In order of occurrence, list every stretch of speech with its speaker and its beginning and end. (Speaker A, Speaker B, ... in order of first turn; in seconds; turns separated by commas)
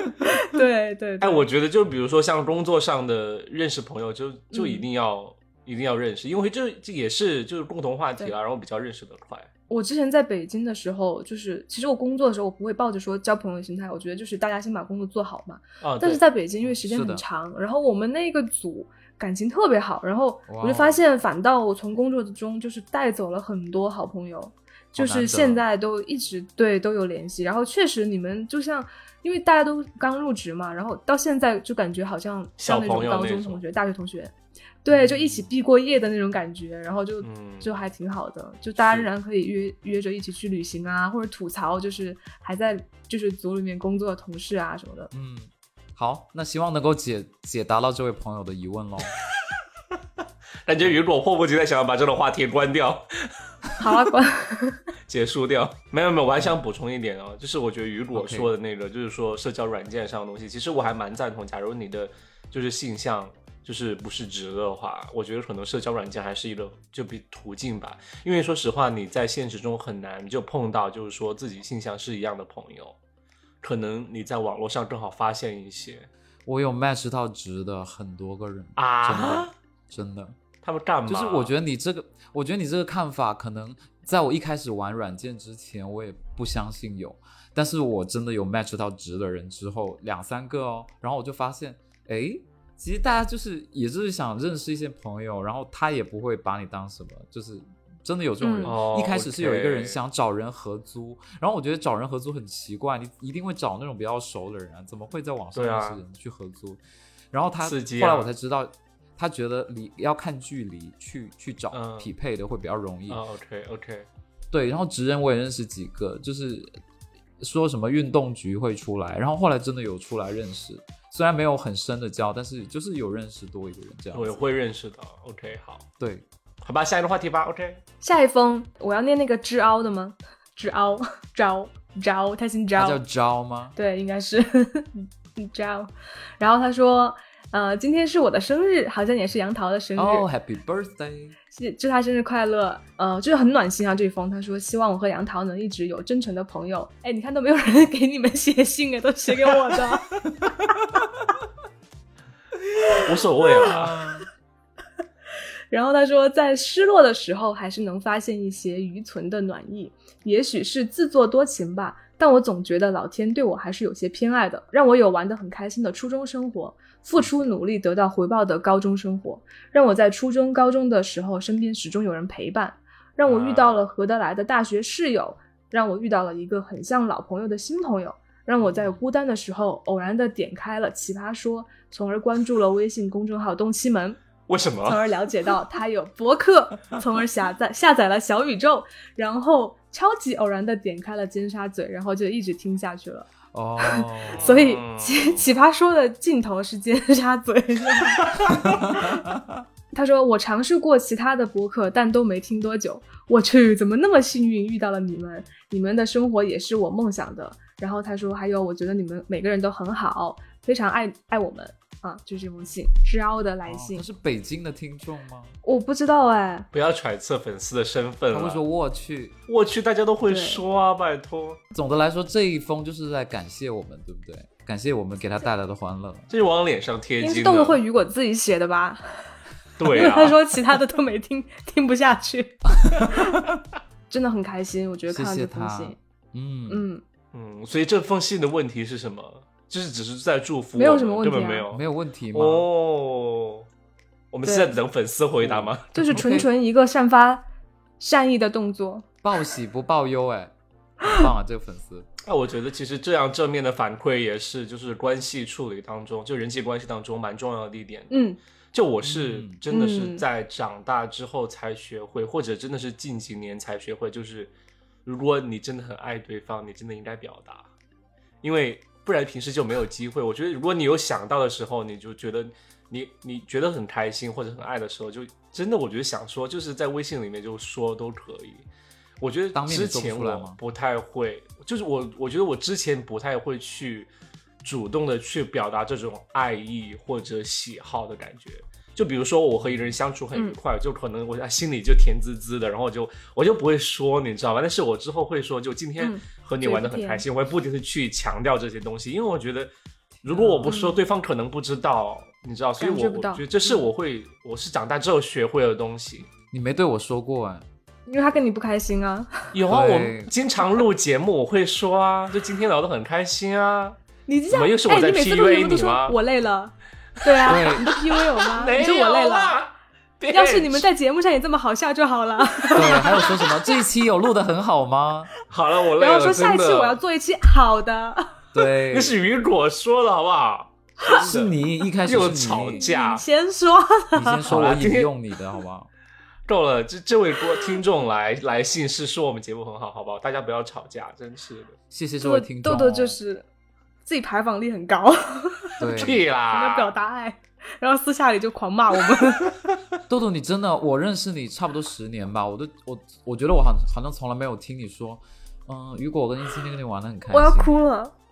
Speaker A: 0.2-1.4, Speaker B: 1.2-9.5, Speaker A: 4.5-4.8, Speaker A: 9.7-45.1, Speaker B: 15.8-16.2, Speaker C: 16.7-17.2, Speaker C: 20.5-21.0, Speaker C: 24.9-25.6, Speaker B: 32.6-33.6, Speaker C: 34.9-35.5, Speaker B: 37.2-37.7, Speaker B: 38.8-39.1, Speaker C: 45.1-49.1, Speaker B: 50.6-53.3, Speaker A: 53.8-54.9, Speaker B: 55.1-73.0, Speaker C: 58.1-58.5, Speaker B: 73.6-76.1, Speaker C: 76.5-80.4, Speaker B: 78.8-79.5, Speaker B: 80.6-81.5, Speaker C: 81.1-106.8, Speaker A: 98.4-98.8, Speaker B: 98.6-100.0, Speaker B: 105.5-106.0, Speaker C: 107.3-113.2, Speaker B: 107.6-108.3, Speaker B: 111.7-112.1, Speaker B: 113.1-114.1, Speaker C: 114.5-116.8, Speaker C: 117.4-124.4, Speaker B: 124.1-125.8, Speaker C: 126.0-126.2, Speaker B: 126.6-127.8, Speaker A: 128.0-133.0, Speaker C: 132.8-133.7, Speaker A: 133.7-140.2, Speaker C: 139.9-141.3, Speaker A: 141.5-150.2, Speaker A: 152.9-153.8, Speaker B: 153.0-154.0, Speaker C: 153.7-154.2, Speaker A: 155.7-184.2, Speaker B: 173.2-173.8, Speaker C: 178.6-179.0, Speaker B: 184.5-185.0, Speaker A: 184.8-193.3, Speaker C: 193.5-194.6, Speaker A: 193.8-199.2, Speaker B: 194.3-195.5, Speaker C: 198.5-199.6, Speaker A: 199.9-214.0, Speaker C: 213.7-215.6, Speaker A: 215.6-216.7, Speaker B: 216.7-218.6, Speaker C: 218.3-219.3, Speaker B: 219.5-221.6, Speaker A: 220.3-220.6, Speaker C: 221.7-226.3, Speaker B: 226.3-227.8, Speaker A: 227.2-233.4, Speaker B: 229.8-230.4, Speaker C: 232.8-233.4, Speaker A: 234.1-236.0, Speaker C: 235.1-236.8, Speaker A: 236.7-237.0, Speaker B: 237.3-243.7, Speaker A: 240.7-241.7, Speaker C: 241.7-242.7, Speaker B: 244.3-246.0, Speaker A: 244.4-244.8, Speaker C: 245.4-246.5, Speaker A: 245.9-247.4, Speaker A: 248.0-249.1, Speaker C: 249.2-252.1, Speaker B: 252.2-264.5, Speaker A: 258.1-258.4, Speaker C: 259.0-259.6, Speaker A: 259.7-260.2, Speaker B: 265.0-267.7, Speaker B: 268.4-278.7, Speaker B: 279.2-284.1, Speaker C: 279.5-280.6, Speaker B: 284.6-299.7, Speaker A: 296.0-297.2, Speaker C: 300.2-300.7, Speaker B: 300.2-306.3, Speaker A: 300.6-301.0, Speaker A: 302.8-303.4, Speaker C: 306.5-307.6, Speaker A: 308.1-309.5, Speaker B: 309.5-314.0, Speaker C: 309.7-310.3, Speaker A: 314.3-319.6, Speaker B: 314.5-316.2, Speaker B: 317.2-320.9, Speaker C: 317.4-317.9, Speaker A: 320.3-323.6, Speaker C: 322.7-325.3, Speaker B: 325.5-327.0, Speaker A: 325.9-328.4, Speaker C: 328.5-329.1, Speaker B: 328.9-333.2, Speaker C: 331.1-332.8, Speaker A: 332.7-334.4, Speaker C: 334.1-335.9, Speaker B: 334.4-335.1, Speaker B: 336.5-341.8, Speaker C: 341.9-343.2, Speaker A: 342.2-343.4, Speaker A: 344.0-349.6, Speaker C: 345.8-346.2, Speaker B: 346.0-346.9, Speaker C: 350.1-357.8, Speaker A: 357.3-358.1